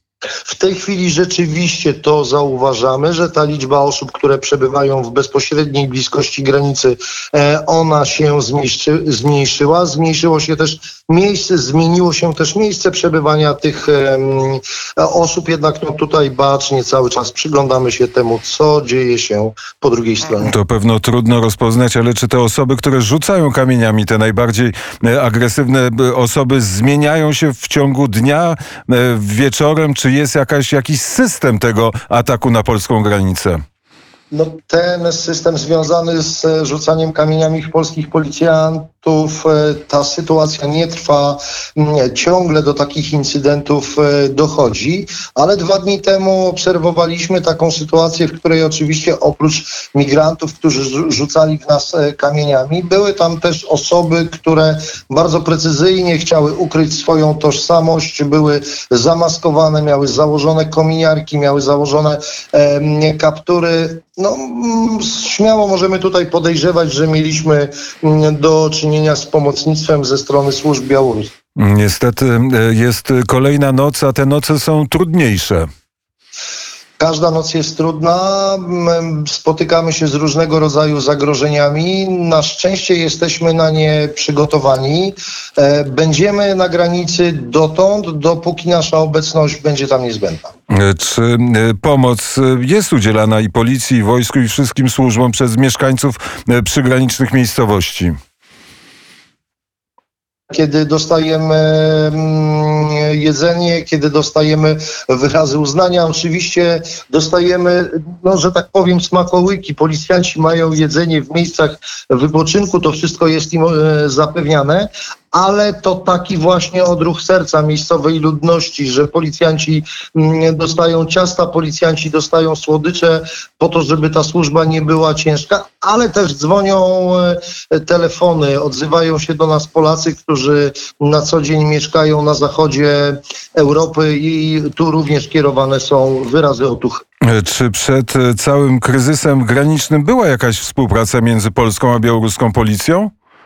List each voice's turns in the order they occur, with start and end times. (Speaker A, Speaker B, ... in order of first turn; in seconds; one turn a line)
Speaker A: 0.5-20.5
Speaker B: 20.4-33.6
Speaker A: 34.3-71.3
Speaker B: 71.6-75.7
Speaker A: 77.0-90.5
Speaker B: 90.7-98.2
Speaker A: 100.5-137.0
Speaker B: 137.2-143.1